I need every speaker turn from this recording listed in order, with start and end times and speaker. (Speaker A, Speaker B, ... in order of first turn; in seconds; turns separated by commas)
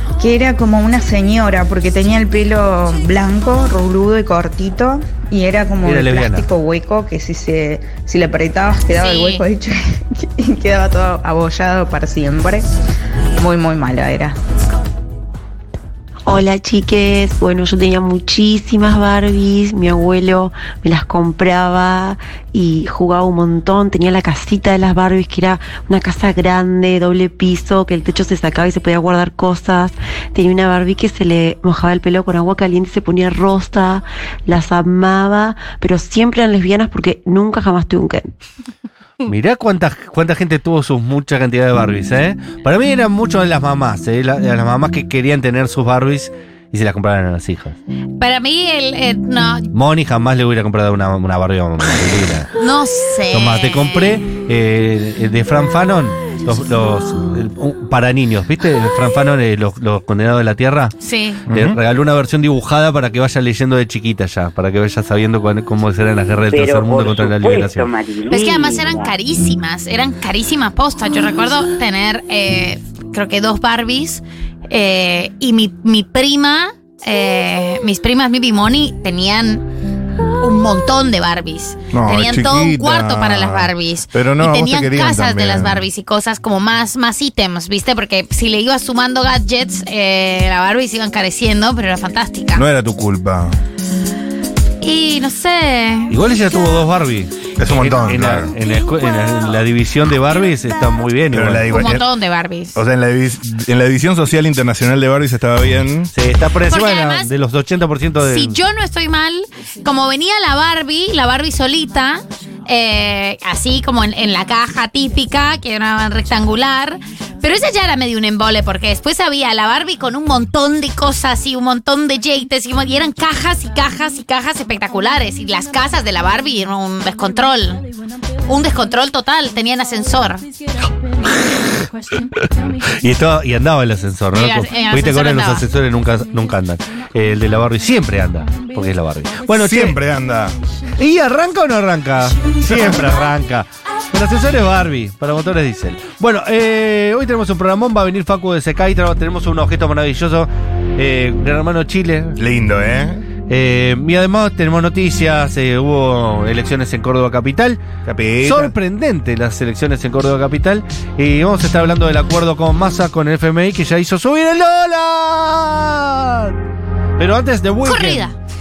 Speaker A: 0.2-12.7, Speaker B: 5.8-6.4, Speaker C: 9.0-9.4, Speaker A: 13.4-14.4, Speaker D: 16.3-38.3, Speaker B: 39.2-47.8, Speaker C: 48.2-49.7, Speaker B: 49.7-52.5, Speaker C: 52.6-54.2, Speaker B: 53.3-60.9, Speaker C: 61.0-61.4, Speaker E: 61.5-61.8, Speaker B: 61.5-67.9, Speaker F: 66.5-69.1, Speaker C: 68.3-79.6, Speaker C: 80.4-92.6, Speaker E: 81.9-85.8, Speaker E: 92.5-93.5, Speaker C: 94.8-96.2, Speaker B: 96.1-101.7, Speaker E: 97.6-98.5, Speaker E: 101.3-102.0, Speaker C: 101.7-102.8, Speaker E: 102.7-106.1, Speaker B: 106.1-108.6, Speaker C: 106.7-107.3, Speaker C: 108.3-127.8, Speaker C: 128.4-130.4, Speaker B: 132.7-140.0, Speaker C: 134.3-135.6, Speaker E: 139.5-140.6, Speaker B: 141.0-152.4, Speaker E: 152.4-153.2, Speaker B: 153.5-157.8, Speaker E: 158.0-158.7, Speaker B: 158.4-166.6, Speaker B: 167.2-168.2, Speaker C: 167.8-168.3